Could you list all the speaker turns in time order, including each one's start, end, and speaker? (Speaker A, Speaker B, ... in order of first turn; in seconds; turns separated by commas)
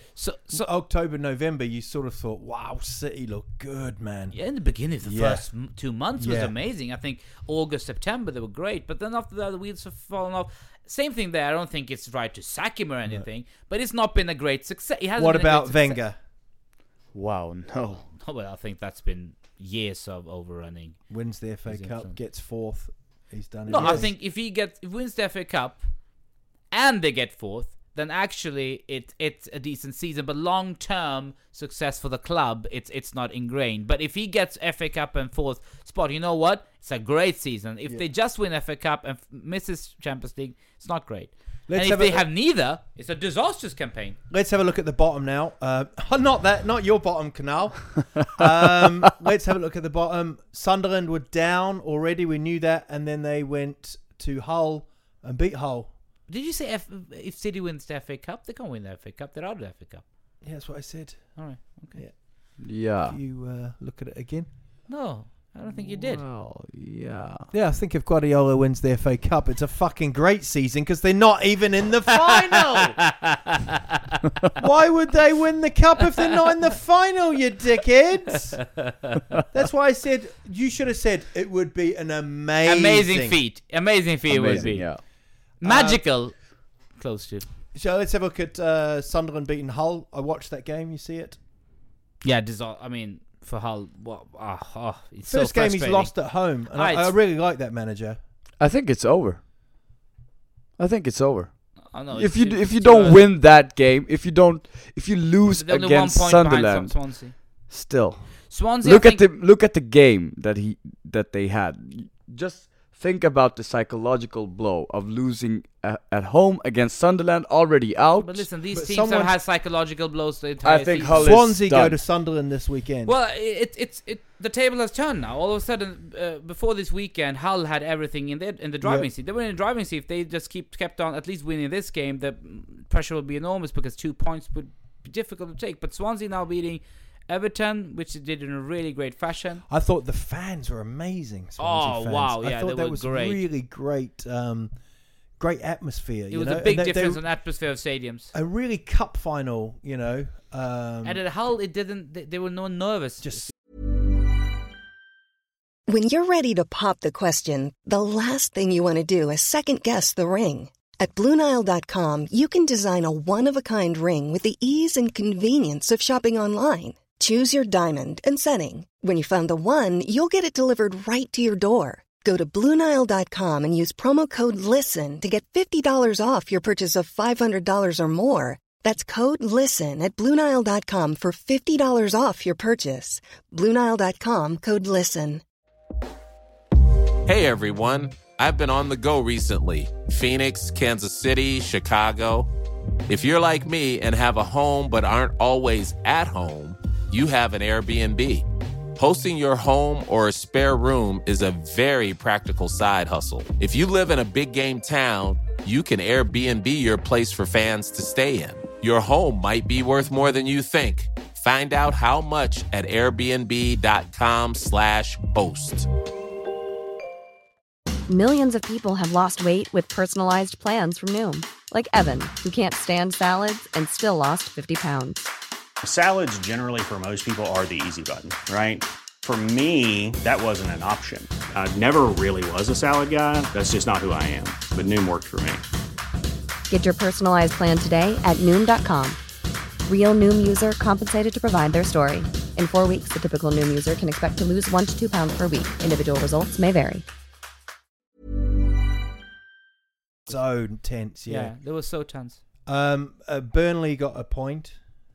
Speaker A: 0.1-0.7, Speaker B: 0.3-4.4, Speaker A: 4.3-16.0, Speaker B: 5.0-5.5, Speaker B: 6.2-6.5, Speaker B: 15.2-16.2, Speaker C: 17.1-18.1, Speaker A: 18.1-21.0, Speaker B: 21.1-24.1, Speaker A: 21.6-22.2, Speaker A: 23.7-25.8, Speaker C: 23.7-24.0, Speaker A: 26.7-44.2, Speaker B: 41.7-42.2, Speaker B: 44.3-55.9, Speaker A: 56.3-60.0, Speaker B: 60.4-61.4, Speaker A: 61.4-62.0, Speaker B: 61.9-64.5, Speaker C: 62.6-63.2, Speaker A: 64.9-66.2, Speaker C: 65.8-67.5, Speaker B: 67.5-73.0, Speaker A: 72.3-73.7, Speaker B: 74.6-78.6, Speaker A: 78.6-79.3, Speaker B: 79.5-83.4, Speaker A: 82.7-84.9, Speaker C: 84.3-85.0, Speaker B: 84.5-84.7, Speaker A: 85.6-86.3, Speaker B: 85.6-86.0, Speaker A: 86.9-87.5, Speaker B: 87.7-91.4, Speaker A: 92.2-97.1, Speaker B: 95.2-98.2, Speaker C: 98.6-99.4, Speaker C: 100.8-118.5, Speaker A: 101.9-103.3, Speaker A: 105.5-107.3, Speaker A: 108.5-109.3, Speaker A: 118.2-121.3, Speaker B: 118.7-119.3, Speaker C: 120.6-122.0, Speaker B: 121.2-123.2, Speaker A: 123.0-139.6, Speaker B: 128.8-129.1, Speaker B: 139.7-144.7, Speaker A: 141.6-143.4, Speaker B: 145.4-147.2, Speaker A: 146.3-148.3, Speaker B: 148.3-151.2, Speaker A: 151.0-153.5, Speaker B: 153.2-153.5, Speaker D: 155.9-185.4, Speaker E: 187.2-192.5, Speaker E: 193.1-215.9, Speaker F: 218.1-225.3, Speaker G: 225.8-235.6, Speaker F: 236.7-239.2, Speaker F: 239.8-247.0, Speaker B: 250.3-251.5, Speaker A: 251.3-252.4, Speaker B: 252.7-254.8